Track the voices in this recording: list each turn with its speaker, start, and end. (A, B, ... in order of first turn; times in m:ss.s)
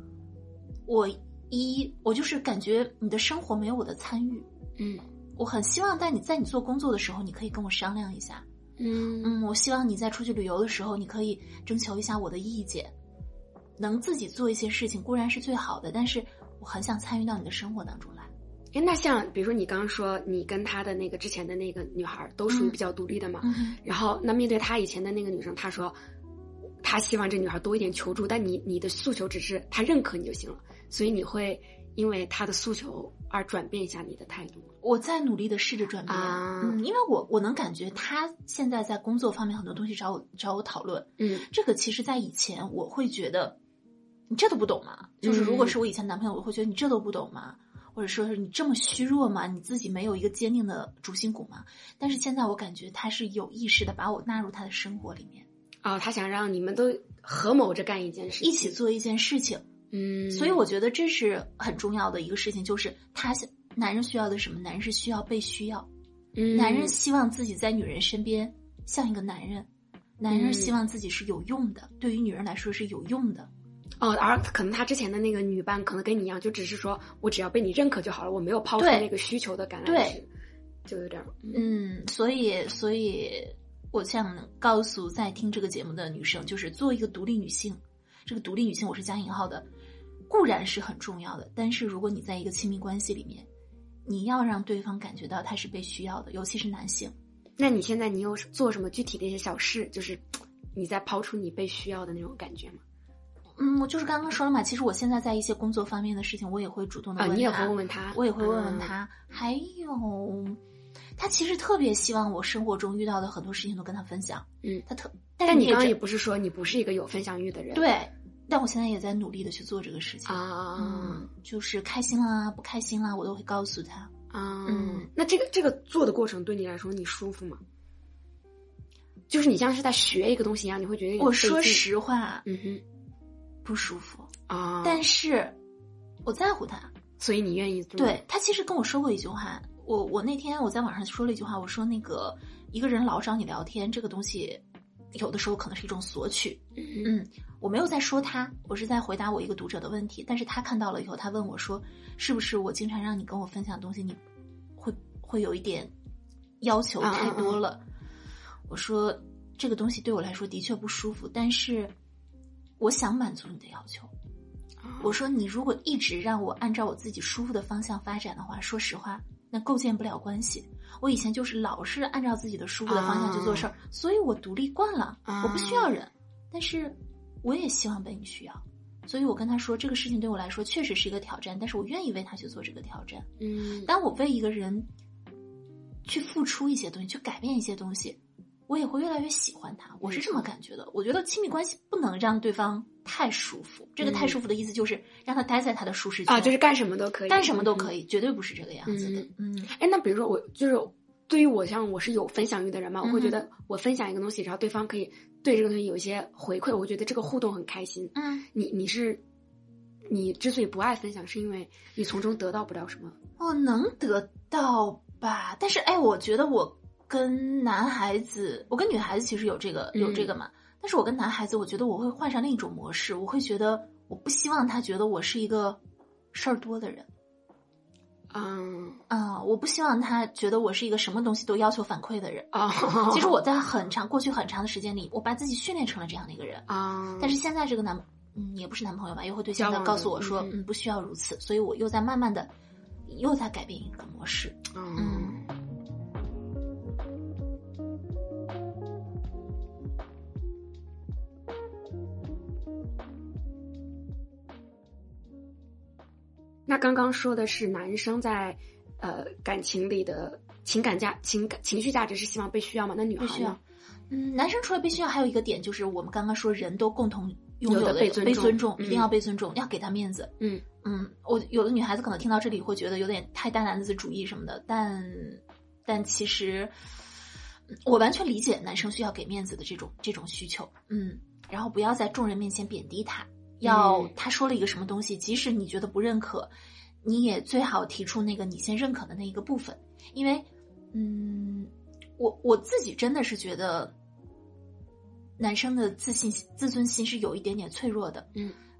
0:00.8-0:04.5 A
0:04.8-0:05.0 B
0:05.4-0:08.4 A
0:08.8-0:09.4 B
0:09.2-0:12.9 A
0:13.8-0:18.3 A
0:18.7-0:26.0 B
0:22.5-0:22.8 A
0:23.4-0:23.8 A
0:26.8-0:34.7 B
0:34.8-0:43.6 A
0:36.1-0:36.8 B
0:41.2-0:41.4 B
0:44.3-0:55.4 A
0:45.2-0:45.8 B
0:55.8-0:58.8 B
0:58.4-0:59.6 A
0:59.9-1:00.6 B
1:00.3-1:05.9 A
1:06.3-1:07.0 B
1:06.5-1:13.5 A
1:10.3-1:10.7 B
1:14.0-1:20.3 B
1:18.8-1:19.1 A
1:19.8-1:20.2 A
1:20.8-1:21.6 B
1:21.5-1:29.7 A
1:30.3-1:33.5 A
1:34.0-1:37.1 A
1:37.6-1:42.8 B
1:43.6-1:50.6 A
1:47.2-1:48.9 B
1:51.2-1:55.9 A
1:55.4-1:57.8 B
1:57.7-2:04.1 A
2:00.2-2:01.2 B
2:04.3-2:07.6 B
2:04.6-2:05.1 A
2:09.3-2:11.8 B
2:11.2-2:12.4 A
2:12.4-2:12.8 B
2:13.6-2:14.3 A
2:14.5-2:15.0 B
2:14.8-2:15.6 A
2:16.2-2:16.9 A
2:17.2-2:18.2 B
2:18.0-2:24.6 A
2:25.1-2:34.2 A
2:26.8-2:27.1 B
2:34.8-2:35.9 A
2:36.6-2:37.8 A
2:37.0-2:37.6 B
2:38.7-2:41.9 A
2:42.8-2:44.1 A
2:44.8-2:45.2 B
2:45.0-3:03.3 A
2:52.9-2:53.7 B
2:55.3-2:56.0 B
3:03.4-3:03.9 B
3:03.8-3:04.9 A
3:06.0-3:16.5 A
3:10.0-3:10.5 B
3:14.0-3:14.4 B
3:16.3-3:17.9 B
3:17.3-3:19.7 A
3:18.8-3:29.2 B
3:23.0-3:23.4 A
3:28.1-3:28.4 A
3:30.1-3:33.2 B
3:33.4-3:45.8 A
3:39.9-3:40.3 B
3:46.3-3:47.1 A
3:48.3-3:49.0 B
3:49.1-3:52.5 A
3:52.5-3:53.4 B
3:53.0-3:56.6 A
3:56.7-3:57.4 B
3:57.2-4:02.5 A
3:59.6-4:00.6 B
4:03.0-4:05.4 A
4:04.7-4:05.5 B
4:16.7-4:23.6 B
4:23.2-4:23.6 A
4:24.1-4:30.3 A
4:27.6-4:29.1 B
4:30.8-4:36.7 A
4:37.7-4:46.5 A
4:43.6-4:44.1 B
4:47.0-4:53.9 A
4:55.4-4:58.3 A